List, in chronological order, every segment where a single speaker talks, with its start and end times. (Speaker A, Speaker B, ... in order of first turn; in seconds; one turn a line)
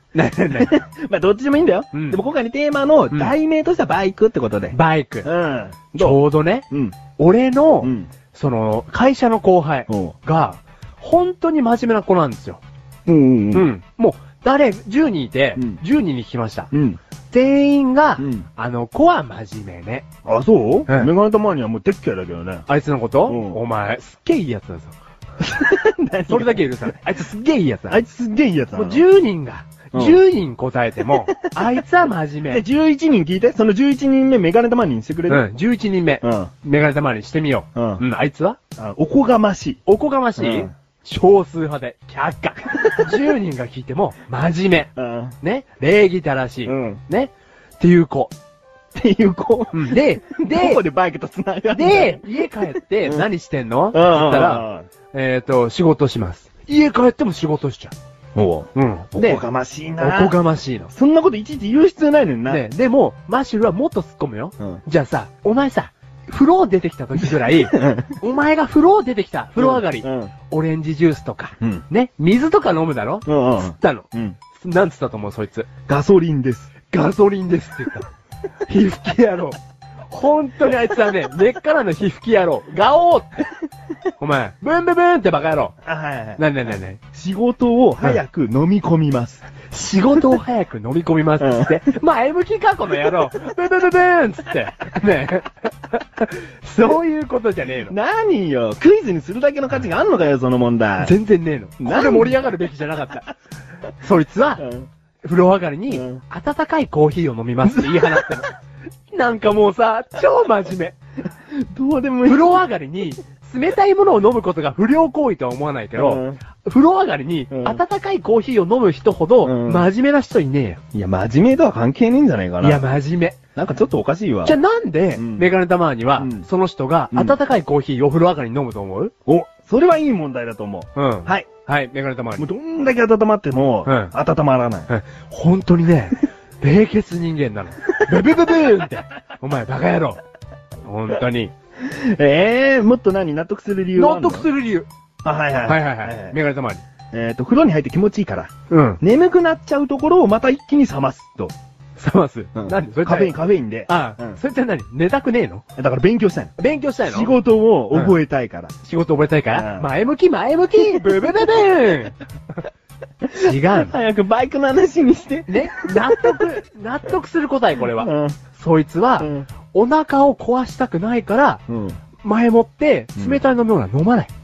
Speaker A: 0.1-0.7
Speaker B: 0.4-7.0
Speaker A: 1.9-2.2
Speaker A: 4.7-5.3
Speaker A: 5.9-6.7
Speaker A: 7.2-12.6
Speaker B: 7.8-8.1
Speaker B: 9.9-10.1
Speaker B: 13.1-13.7
Speaker A: 13.5-16.7
Speaker B: 16.7-17.0
Speaker A: 17.3-20.1
Speaker B: 18.2-18.4
Speaker B: 20.2-22.6
Speaker A: 22.7-24.9
Speaker B: 23.2-23.6
Speaker B: 25.4-26.9
Speaker A: 26.3-28.0
Speaker B: 27.9-29.0
Speaker A: 28.7-32.6
Speaker B: 29.9-30.2
Speaker B: 31.1-31.7
Speaker B: 32.5-35.5
Speaker A: 35.3-38.6
Speaker B: 36.2-36.5
Speaker B: 37.7-38.0
Speaker B: 38.8-39.8
Speaker A: 39.9-48.3
Speaker B: 40.4-40.7
Speaker B: 42.7-43.2
Speaker B: 45.0-45.4
Speaker B: 46.6-47.0
Speaker B: 48.9-53.3
Speaker A: 49.7-50.8
Speaker A: 51.7-57.9
Speaker B: 53.9-54.9
Speaker B: 58.3-60.4
Speaker A: 58.7-59.4
Speaker A: 60.0-60.9
Speaker B: 60.9-62.6
Speaker A: 62.5-75.7
Speaker B: 67.4-68.2
Speaker B: 69.5-70.3
Speaker B: 73.2-74.4
Speaker B: 75.9-76.7
Speaker A: 76.9-78.0
Speaker A: 78.7-79.5
Speaker A: 80.1-83.5
Speaker A: 84.2-85.7
Speaker B: 85.8-86.5
Speaker A: 86.4-87.0
Speaker B: 87.1-89.4
Speaker A: 89.7-97.9
Speaker B: 91.4-91.8
Speaker B: 97.9-101.1
Speaker A: 101.0-103.3
Speaker B: 101.8-102.4
Speaker A: 104.0-104.6
Speaker B: 104.6-104.9
Speaker A: 105.2-108.5
Speaker B: 105.9-106.2
Speaker B: 107.6-108.5
Speaker A: 109.1-111.0
Speaker B: 111.5-112.6
Speaker A: 112.2-120.8
Speaker B: 115.9-116.4
Speaker B: 117.5-117.8
Speaker B: 119.4-119.9
Speaker B: 120.9-122.8
Speaker A: 122.6-123.4
Speaker B: 123.5-124.6
Speaker A: 124.4-129.1
Speaker B: 125.1-125.5
Speaker B: 126.1-126.5
Speaker B: 127.1-127.4
Speaker B: 129.3-131.5
Speaker A: 130.9-132.4
Speaker B: 132.4-134.9
Speaker A: 133.8-134.1
Speaker A: 134.9-140.2
Speaker B: 138.1-138.6
Speaker A: 140.8-141.5
Speaker B: 141.8-144.5
Speaker A: 143.9-144.9
Speaker B: 145.2-146.4
Speaker A: 145.7-146.8
Speaker B: 147.1-148.5
Speaker A: 148.7-149.0
Speaker B: 149.0-151.5
Speaker A: 152.0-153.3
Speaker B: 152.5-154.4
Speaker A: 153.9-155.6
Speaker B: 155.8-156.5
Speaker A: 156.6-157.4
Speaker B: 157.1-158.7
Speaker A: 158.8-162.1
Speaker B: 159.5-159.9
Speaker B: 160.8-161.3
Speaker B: 163.3-166.4
Speaker A: 163.3-163.9
Speaker A: 165.5-171.6
Speaker B: 167.8-168.4
Speaker B: 169.2-169.5
Speaker B: 171.7-172.0
Speaker A: 172.2-174.3